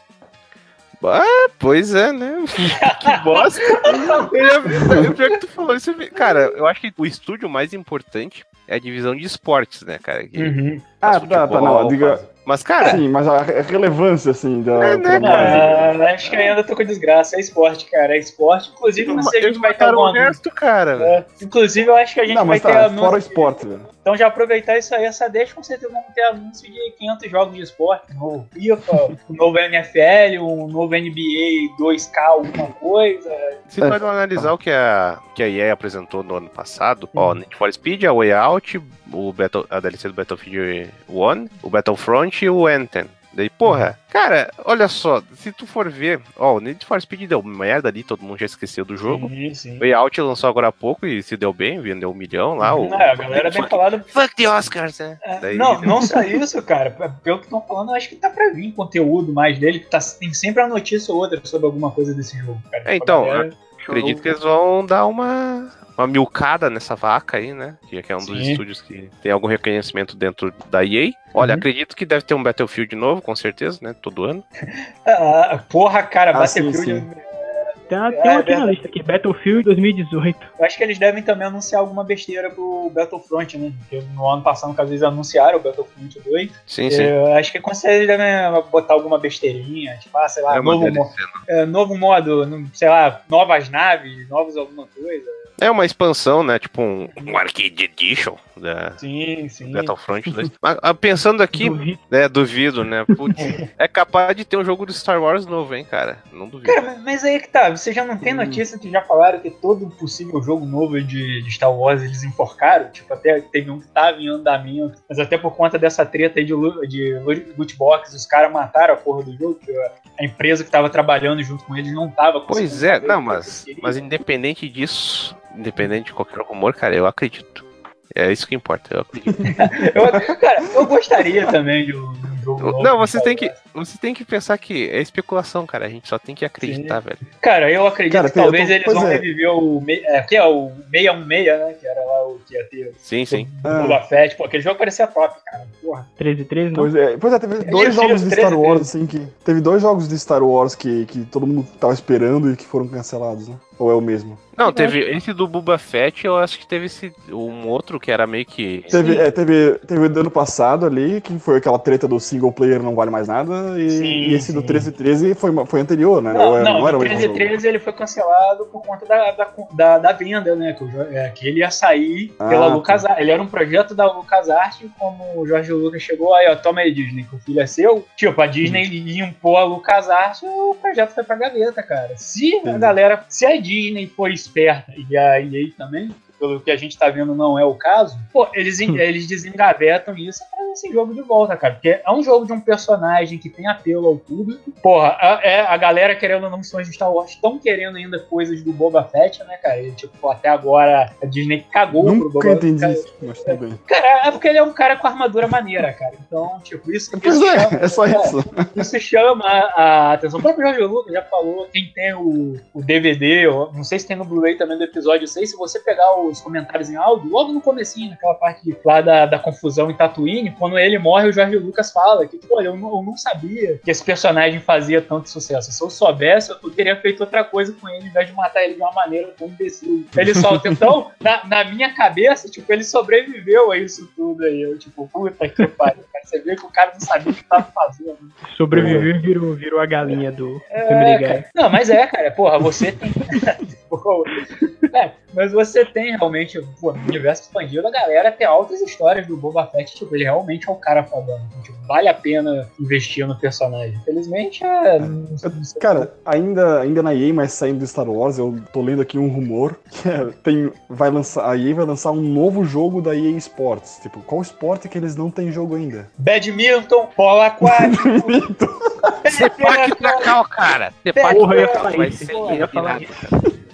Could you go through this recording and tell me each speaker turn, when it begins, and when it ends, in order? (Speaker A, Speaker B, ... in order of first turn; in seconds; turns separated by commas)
Speaker A: 1.0-13.0, Speaker B: 2.7-5.0, Speaker B: 10.3-10.8, Speaker C: 11.0-12.2, Speaker C: 12.8-15.9, Speaker A: 14.8-15.9, Speaker B: 15.2-20.4, Speaker A: 19.1-21.1, Speaker B: 21.0-23.5, Speaker C: 22.3-23.9, Speaker B: 24.0-33.5, Speaker A: 33.7-56.2, Speaker C: 33.8-34.5, Speaker B: 49.0-49.9, Speaker B: 52.6-54.1, Speaker B: 55.2-64.1, Speaker A: 62.9-74.4, Speaker B: 68.2-68.6, Speaker B: 71.4-71.6, Speaker B: 74.6-78.7, Speaker C: 76.3-77.1, Speaker D: 77.9-80.5, Speaker B: 80.6-95.4, Speaker A: 86.7-87.1, Speaker A: 90.5-91.4, Speaker A: 95.6-99.0, Speaker B: 99.0-99.9, Speaker A: 99.6-106.9, Speaker D: 101.5-102.0, Speaker B: 106.7-124.0, Speaker C: 108.2-108.6, Speaker A: 122.5-129.5, Speaker B: 129.6-133.5, Speaker A: 132.6-137.2, Speaker B: 136.6-146.1, Speaker C: 138.1-139.2, Speaker A: 143.0-143.5, Speaker C: 143.6-144.0, Speaker D: 146.2-146.9, Speaker C: 146.7-154.4, Speaker B: 147.6-148.9, Speaker A: 154.5-159.0, Speaker D: 154.6-155.0, Speaker C: 158.9-167.5, Speaker B: 158.9-159.2, Speaker B: 163.9-164.9, Speaker B: 166.3-239.1, Speaker C: 172.4-173.0, Speaker C: 182.6-182.9, Speaker C: 201.9-203.8, Speaker C: 207.1-208.8, Speaker C: 230.2-230.8, Speaker D: 238.5-241.5, Speaker C: 238.7-239.1, Speaker B: 240.7-256.1, Speaker C: 255.0-266.1, Speaker B: 266.2-268.4, Speaker C: 267.6-269.2, Speaker B: 269.2-270.3, Speaker A: 269.3-273.4, Speaker B: 271.1-273.0, Speaker D: 271.3-273.6